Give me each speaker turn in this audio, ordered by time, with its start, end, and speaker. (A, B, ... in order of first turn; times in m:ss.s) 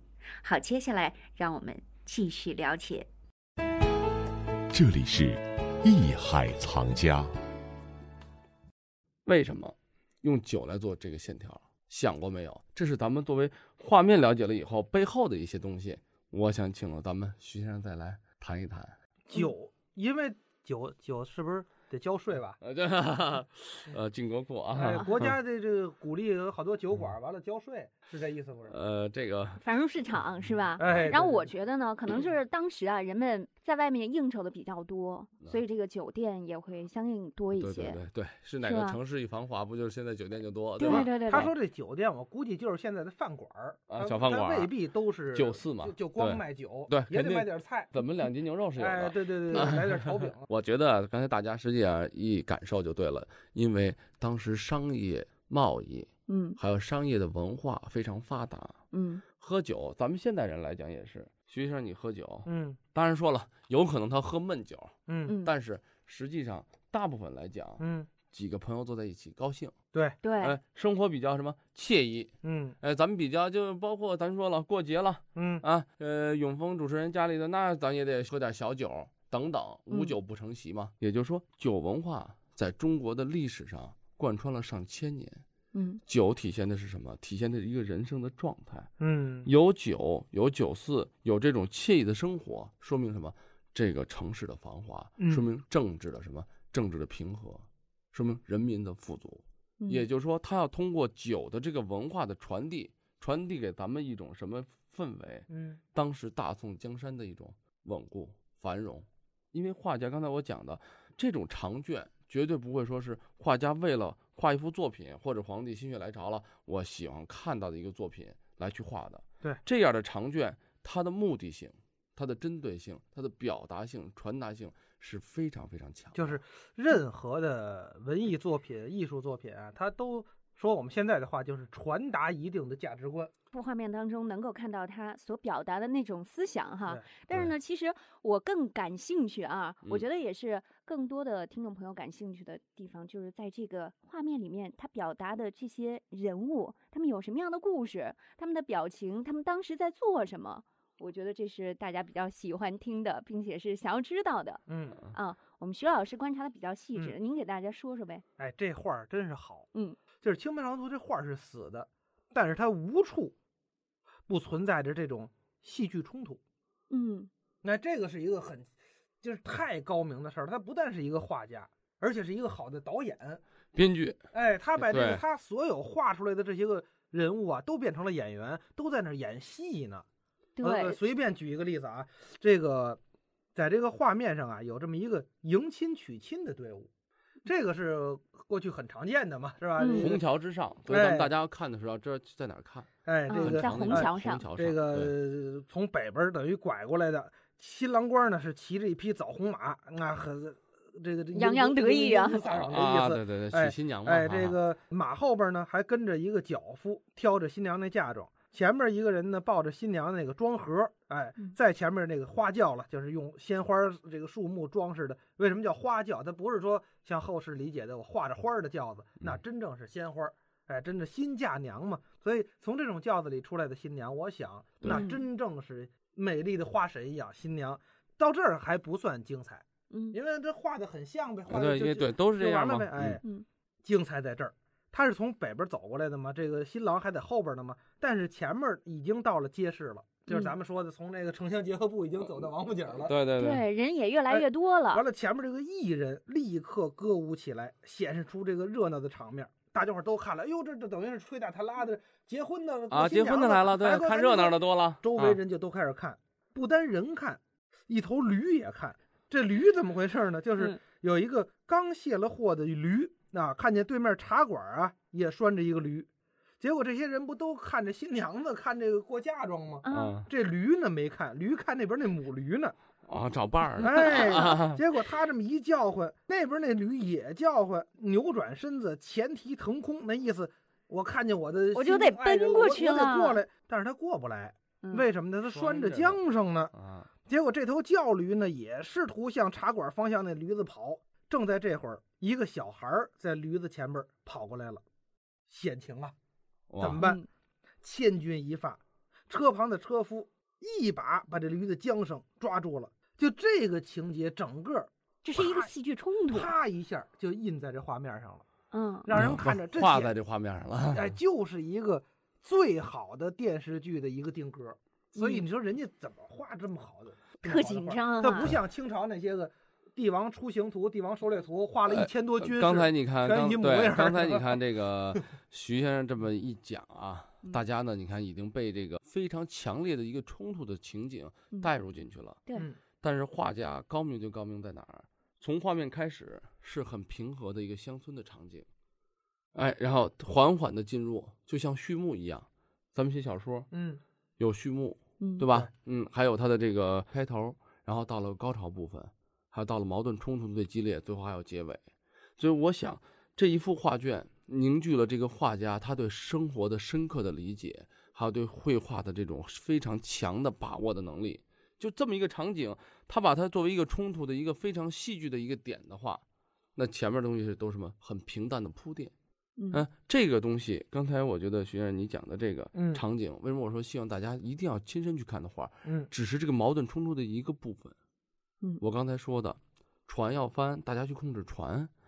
0:00.4-0:03.1 A
0:04.7-0:07.3 B
0:09.2-0:18.9 C
0:19.3-0:22.6 D
0:22.6-0:25.3 C
0:24.7-0:28.8 D
0:28.7-0:29.6 C
0:29.6-0:38.0 E
0:30.8-0:31.5 D
0:37.5-0:41.5 C
0:38.6-0:39.0 E
0:40.8-0:41.5 E
0:40.8-0:47.9 D
0:43.9-0:44.7 C
0:45.3-1:09.7 C
0:48.8-0:50.4 D
0:56.3-0:56.6 E
0:58.9-0:59.2 E
1:02.4-1:02.8 D
1:05.1-1:05.4 D
1:05.2-1:05.5 E
1:07.8-1:08.1 D
1:09.9-1:10.2 D
1:10.2-1:10.6 E
1:10.4-1:25.4 C
1:12.4-1:12.8 D
1:15.3-1:15.6 D
1:19.9-1:20.1 E
1:25.7-1:26.0 E
1:26.0-1:28.9 C
1:29.0-1:29.5 D
1:29.4-2:06.4 C
1:35.2-1:35.4 D
1:39.8-1:40.0 E
1:45.5-1:45.8 D
2:06.1-2:13.3 D
2:13.5-2:38.2 E
2:16.8-2:17.2 D
2:34.7-2:35.0 D
2:38.4-2:43.3 D
2:39.7-2:40.0 E
2:44.3-2:46.4 D
2:46.9-2:47.3 E
2:47.6-2:53.4 D
2:53.7-2:54.2 C
2:54.3-3:00.0 D
2:54.8-2:55.2 C
3:00.6-3:01.0 E
3:00.6-3:03.0 D
3:03.6-3:06.9 D
3:07.4-3:10.2 D
3:09.8-3:10.1 E
3:09.9-3:15.1 C
3:10.9-3:11.3 D
3:13.0-3:53.2 D
3:13.3-3:14.5 E
3:21.3-3:22.5 E
3:22.5-3:24.6 C
3:44.8-3:45.1 C
3:44.8-3:45.2 E
3:49.9-3:50.2 E
3:51.5-3:53.2 C
3:53.8-4:03.1 D
4:00.3-4:00.5 E
4:03.0-4:03.6 C
4:03.4-4:05.0 E
4:04.3-4:26.1 D
4:12.9-4:15.4 C
4:26.6-4:32.7 D
4:29.8-4:30.2 E
4:29.9-4:30.3 C
4:33.1-4:34.8 C
4:33.8-4:46.7 D
4:33.8-4:34.6 E
4:41.7-4:43.4 E
4:44.8-4:45.1 E
4:45.4-4:46.2 C
4:46.7-4:47.1 C
4:47.2-4:54.8 D
4:55.5-4:56.1 D
4:56.7-4:57.0 C
4:56.8-4:57.2 D
4:57.8-5:05.7 D
5:05.2-5:06.5 E
5:06.3-5:08.4 D
5:08.7-5:09.1 E
5:09.0-5:10.1 D
5:09.1-5:11.1 C
5:10.9-5:24.6 D
5:15.1-5:15.4 E
5:17.4-5:18.6 E
5:21.9-5:32.4 C
5:33.0-5:38.7 C
5:39.5-5:43.7 C
5:43.7-5:44.0 D
5:44.4-5:51.8 C
5:45.2-5:45.5 E
5:52.4-6:06.2 C
6:06.8-6:09.1 C
6:09.6-6:09.8 E
6:09.7-6:17.9 C
6:12.7-6:13.0 D
6:15.8-6:16.1 D
6:18.8-6:21.9 C